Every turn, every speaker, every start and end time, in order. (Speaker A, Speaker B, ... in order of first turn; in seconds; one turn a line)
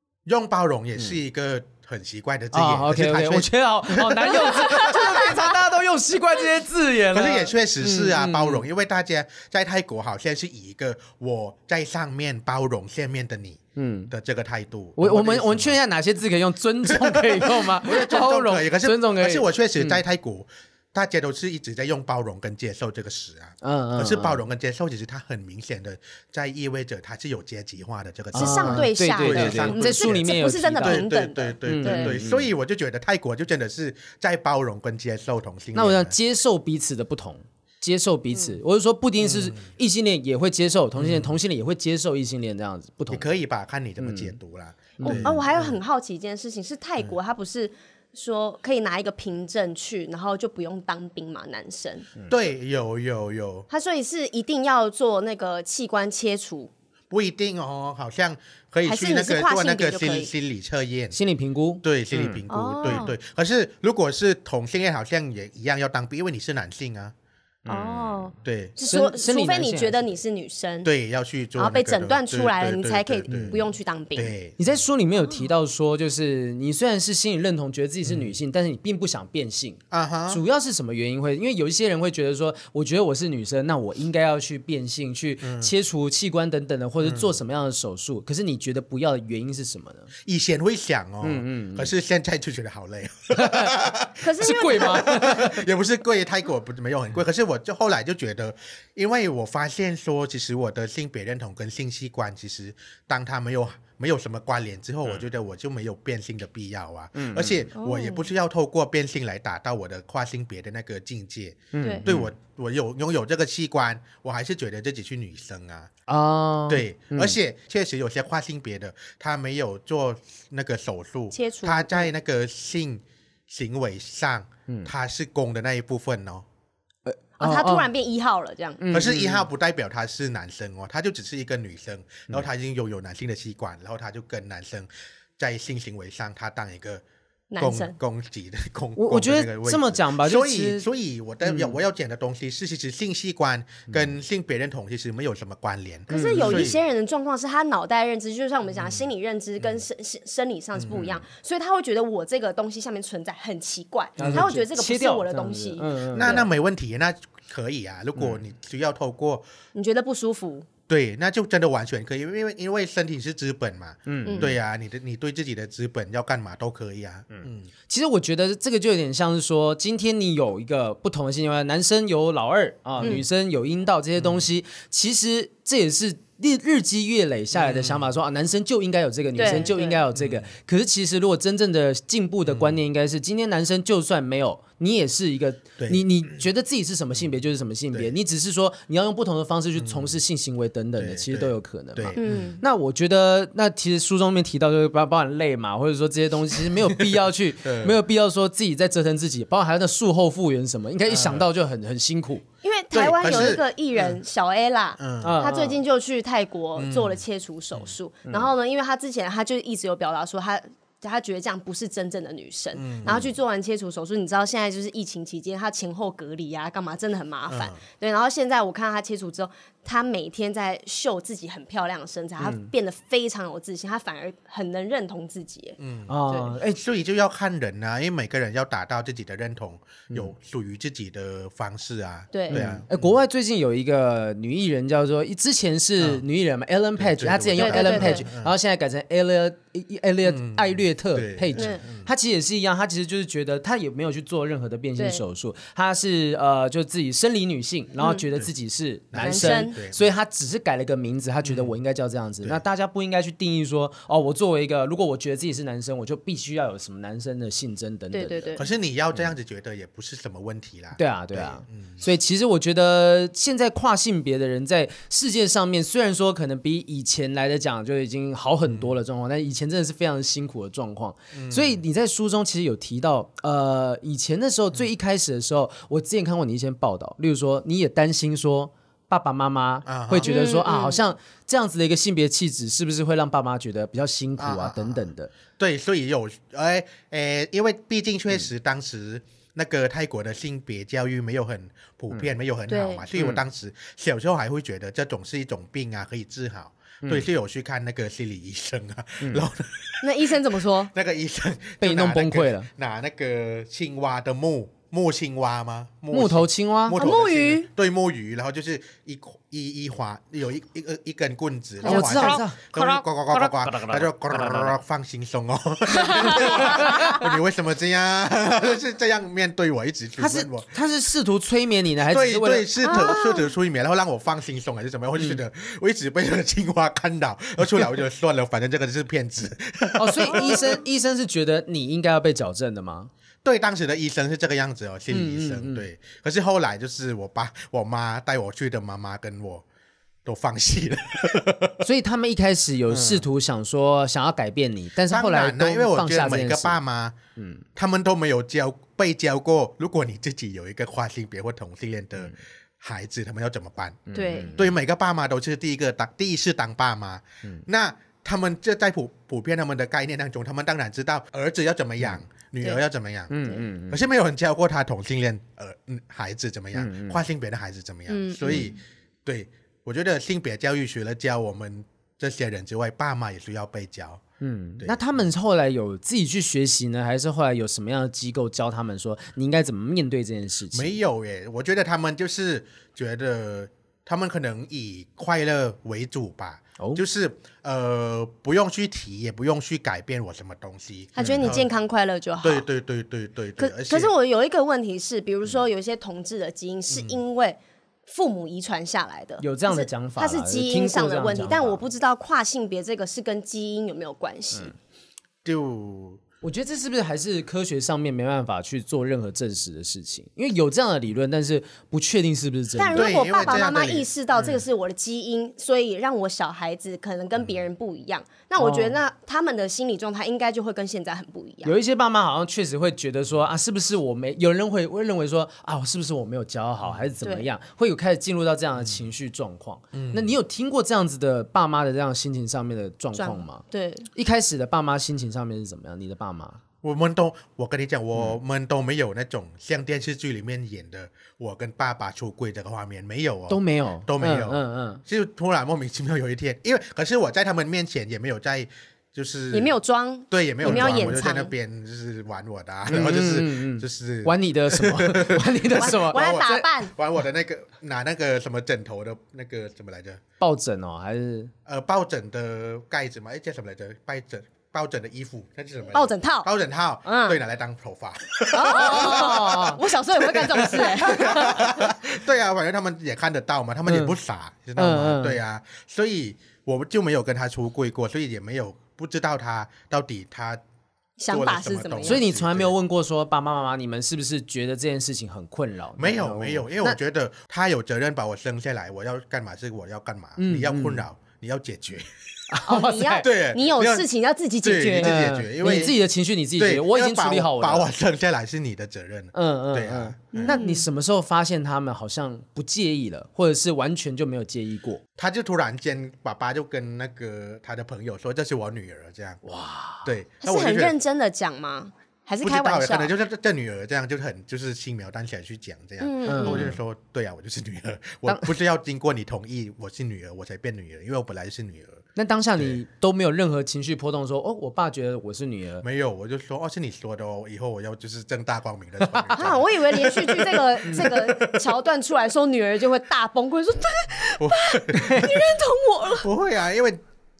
Speaker A: 0.2-5.2
Speaker B: 2.5-8.7
Speaker C: 4.6-5.4
Speaker A: 7.1-15.8
Speaker B: 13.8-14.1
Speaker B: 15.0-20.0
Speaker A: 16.8-36.1
Speaker B: 23.6-24.4
Speaker B: 28.3-31.1
Speaker C: 28.3-32.2
Speaker B: 31.6-32.5
Speaker B: 35.7-43.3
Speaker A: 39.2-39.6
Speaker A: 41.0-41.4
Speaker A: 43.1-45.8
Speaker B: 44.0-44.4
Speaker B: 45.0-45.5
Speaker C: 45.0-52.1
Speaker A: 52.3-53.7
Speaker C: 53.7-56.7
Speaker A: 57.1-61.1
Speaker C: 58.9-60.3
Speaker B: 61.1-63.0
Speaker A: 61.8-67.1
Speaker C: 62.5-63.1
Speaker B: 67.6-68.3
Speaker C: 67.7-70.9
Speaker A: 68.4-68.7
Speaker B: 68.9-70.2
Speaker A: 70.8-73.6
Speaker C: 71.5-74.3
Speaker B: 73.3-73.6
Speaker A: 74.2-74.6
Speaker B: 74.6-90.1
Speaker A: 78.0-78.3
Speaker A: 79.9-80.4
Speaker A: 85.4-85.7
Speaker A: 87.0-87.3
Speaker A: 90.2-115.9
Speaker B: 91.2-91.9
Speaker B: 93.3-93.8
Speaker C: 94.2-95.1
Speaker B: 94.4-95.6
Speaker B: 107.1-107.7
Speaker C: 107.7-108.3
Speaker B: 111.7-112.3
Speaker B: 116.1-117.4
Speaker A: 116.7-126.4
Speaker C: 121.3-122.1
Speaker B: 127.0-127.9
Speaker C: 127.4-128.8
Speaker B: 128.8-129.4
Speaker A: 128.9-137.0
Speaker C: 137.5-137.9
Speaker A: 137.6-146.8
Speaker B: 139.0-140.8
Speaker B: 141.4-141.8
Speaker B: 146.1-146.7
Speaker C: 146.1-156.5
Speaker A: 148.8-149.0
Speaker A: 150.8-151.2
Speaker B: 154.2-156.4
Speaker A: 154.2-154.5
Speaker A: 156.1-159.4
Speaker C: 159.7-160.7
Speaker A: 160.9-167.7
Speaker B: 164.1-164.5
Speaker C: 164.2-164.5
Speaker B: 167.3-202.4
Speaker A: 172.9-173.2
Speaker A: 174.2-174.4
Speaker A: 177.5-178.1
Speaker C: 179.3-180.0
Speaker A: 180.1-180.5
Speaker A: 182.4-182.8
Speaker A: 185.8-186.4
Speaker A: 189.8-190.2
Speaker A: 191.0-192.5
Speaker C: 192.2-192.6
Speaker A: 197.0-198.0
Speaker A: 201.1-201.4
Speaker C: 202.6-225.8
Speaker A: 202.9-204.1
Speaker B: 203.3-203.6
Speaker A: 205.0-205.4
Speaker B: 205.2-205.8
Speaker A: 206.8-207.2
Speaker A: 212.7-213.3
Speaker A: 217.5-217.8
Speaker B: 222.4-222.7
Speaker A: 225.8-233.1
Speaker B: 226.1-226.8
Speaker C: 226.3-226.6
Speaker C: 232.3-232.7
Speaker B: 232.5-258.6
Speaker A: 236.0-236.2
Speaker A: 237.0-238.5
Speaker C: 237.6-238.2
Speaker A: 240.3-242.1
Speaker C: 241.5-241.8
Speaker C: 245.0-245.2
Speaker C: 248.0-248.2
Speaker A: 249.1-250.0
Speaker C: 249.2-249.8
Speaker A: 251.4-251.8
Speaker C: 258.1-258.7
Speaker A: 258.6-262.0
Speaker B: 261.0-285.3
Speaker A: 268.6-268.9
Speaker A: 271.3-271.8
Speaker A: 279.9-280.3
Speaker C: 280.2-281.0
Speaker A: 284.4-320.8
Speaker C: 292.7-293.0
Speaker B: 293.1-293.4
Speaker C: 300.0-300.9
Speaker B: 301.8-302.7
Speaker B: 306.1-307.0
Speaker C: 306.9-307.7
Speaker B: 311.8-312.6
Speaker C: 311.8-312.8
Speaker C: 315.9-317.1
Speaker B: 316.3-317.2
Speaker B: 320.2-323.1
Speaker A: 322.1-330.8
Speaker C: 322.8-323.5
Speaker B: 329.9-333.1
Speaker A: 333.4-339.6
Speaker B: 335.1-335.8
Speaker A: 340.2-341.8
Speaker B: 341.8-346.8
Speaker A: 342.9-343.3
Speaker A: 345.1-347.2
Speaker B: 347.4-347.6
Speaker A: 347.8-374.2
Speaker B: 354.1-354.6
Speaker C: 354.1-354.6
Speaker B: 363.3-364.0
Speaker B: 366.7-367.2
Speaker C: 368.1-368.8
Speaker B: 374.4-380.9
Speaker A: 374.8-375.2
Speaker A: 380.7-391.7
Speaker C: 391.1-392.7
Speaker B: 391.2-391.5
Speaker A: 392.4-394.1
Speaker C: 393.6-404.7
Speaker A: 396.9-397.2
Speaker B: 399.4-401.8
Speaker A: 405.4-406.2
Speaker B: 406.4-413.6
Speaker C: 412.8-421.7
Speaker A: 412.9-414.6
Speaker B: 418.6-418.9
Speaker B: 421.6-433.6
Speaker A: 426.8-427.1
Speaker C: 427.2-427.5
Speaker A: 428.8-429.1
Speaker A: 429.9-430.4
Speaker C: 433.1-434.1
Speaker B: 434.1-436.6
Speaker A: 436.8-449.7
Speaker B: 443.5-445.0
Speaker C: 449.5-451.5
Speaker A: 450.3-460.2
Speaker B: 450.6-451.2
Speaker B: 452.9-456.7
Speaker C: 455.7-456.9
Speaker B: 460.4-461.5
Speaker A: 461.6-480.6
Speaker C: 465.9-466.5
Speaker C: 467.0-467.4
Speaker C: 468.5-471.9
Speaker B: 468.6-469.8
Speaker B: 473.9-474.1
Speaker B: 474.8-475.4
Speaker C: 481.2-482.2
Speaker A: 481.3-482.7
Speaker B: 482.0-487.0
Speaker A: 486.0-492.1
Speaker B: 490.4-491.0
Speaker B: 492.5-493.2
Speaker C: 492.7-495.2
Speaker A: 493.2-494.1
Speaker A: 494.6-496.0
Speaker B: 494.9-497.9
Speaker A: 496.6-500.6
Speaker B: 499.3-505.0
Speaker C: 500.4-500.9
Speaker A: 505.1-509.4
Speaker B: 509.4-510.1
Speaker A: 510.0-510.9
Speaker C: 510.4-513.1
Speaker A: 512.4-522.0
Speaker C: 516.0-516.7
Speaker B: 516.2-516.7
Speaker B: 522.1-525.8
Speaker A: 525.8-531.6
Speaker B: 529.0-529.4
Speaker C: 529.3-536.3
Speaker B: 530.9-531.1
Speaker A: 534.4-535.4
Speaker B: 534.9-535.5
Speaker A: 536.2-537.0